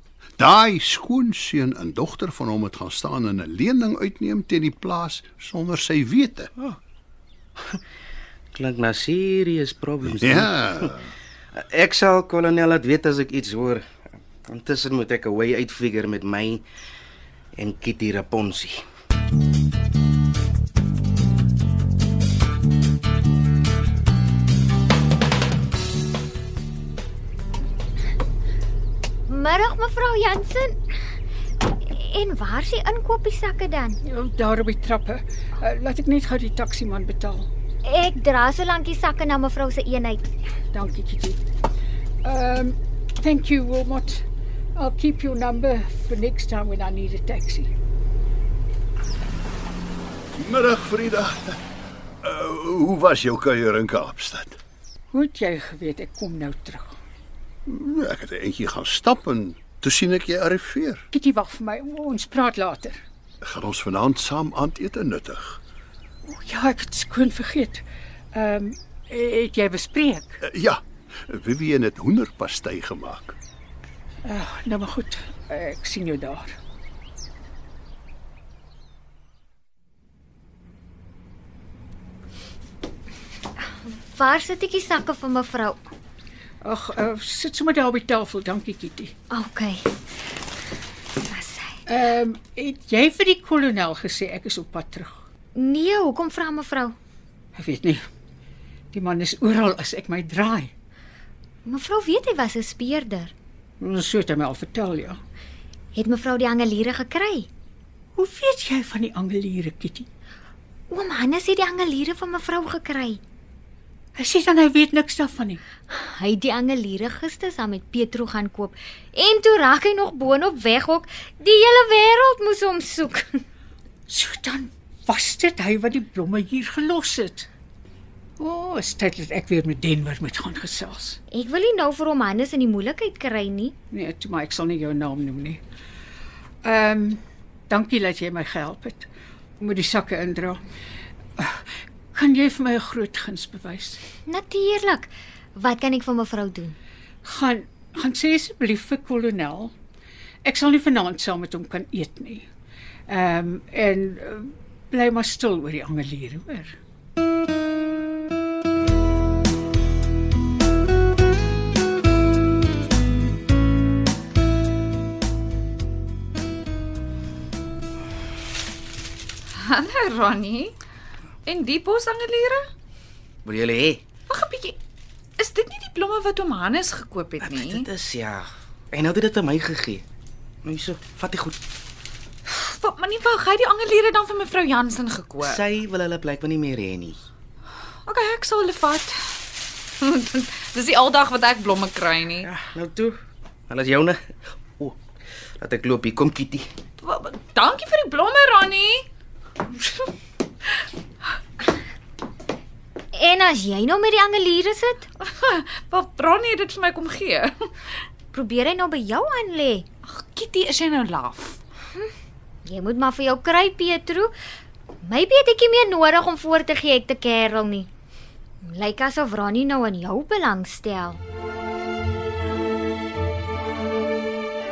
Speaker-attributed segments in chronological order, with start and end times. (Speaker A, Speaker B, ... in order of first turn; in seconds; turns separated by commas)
Speaker A: 0.4-6.5, Speaker B: 8.5-10.5, Speaker A: 10.1-11.1, Speaker B: 11.6-13.8, Speaker B: 14.5-16.6, Speaker B: 17.6-18.8, Speaker C: 29.3-30.8, Speaker C: 31.8-34.0, Speaker D: 34.0-37.5, Speaker C: 37.9-40.2, Speaker D: 40.7-41.4, Speaker D: 42.2-44.2, Speaker D: 44.8-47.7, Speaker A: 50.3-51.6, Speaker A: 52.2-54.6, Speaker D: 55.1-57.0, Speaker A: 57.7-61.1, Speaker D: 61.1-63.0, Speaker A: 63.4-65.6, Speaker D: 66.3-70.4, Speaker A: 70.5-73.4, Speaker D: 74.3-76.6, Speaker C: 84.1-85.8, Speaker D: 86.6-89.1, Speaker C: 89.3-89.9, Speaker C: 91.3-91.8, Speaker D: 91.9-95.2, Speaker C: 95.5-97.0, Speaker D: 97.5-98.0, Speaker D: 98.9-100.7, Speaker C: 101.7-103.3, Speaker D: 103.8-105.2, Speaker C: 106.0-107.5, Speaker D: 108.2-110.1, Speaker C: 110.9-113.2, Speaker D: 114.2-115.6, Speaker C: 115.9-123.3, Speaker D: 124.1-127.5, Speaker D: 128.4-131.2, Speaker C: 131.3-133.8, Speaker D: 133.9-135.6, Speaker D: 136.6-139.1, Speaker D: 139.6-140.6, Speaker D: 142.1-144.0, Speaker C: 144.3-146.8, Speaker D: 147.2-149.7, Speaker D: 150.4-152.5, Speaker D: 153.1-156.8, Speaker E: 169.5-170.8, Speaker E: 171.5-172.7, Speaker B: 173.4-174.0, Speaker E: 174.3-174.8, Speaker E: 175.4-177.9, Speaker B: 177.4-180.0, Speaker B: 180.6-181.6, Speaker E: 182.5-185.6, Speaker B: 185.4-187.2, Speaker E: 188.1-192.5, Speaker B: 192.4-193.2, Speaker B: 193.7-194.2, Speaker B: 195.6-196.7, Speaker E: 197.0-199.1, Speaker E: 199.8-200.1, Speaker C: 203.1-205.1, Speaker E: 205.2-207.7, Speaker C: 208.3-209.9, Speaker E: 210.0-211.6, Speaker C: 212.7-214.3, Speaker C: 215.0-217.9, Speaker C: 218.6-221.2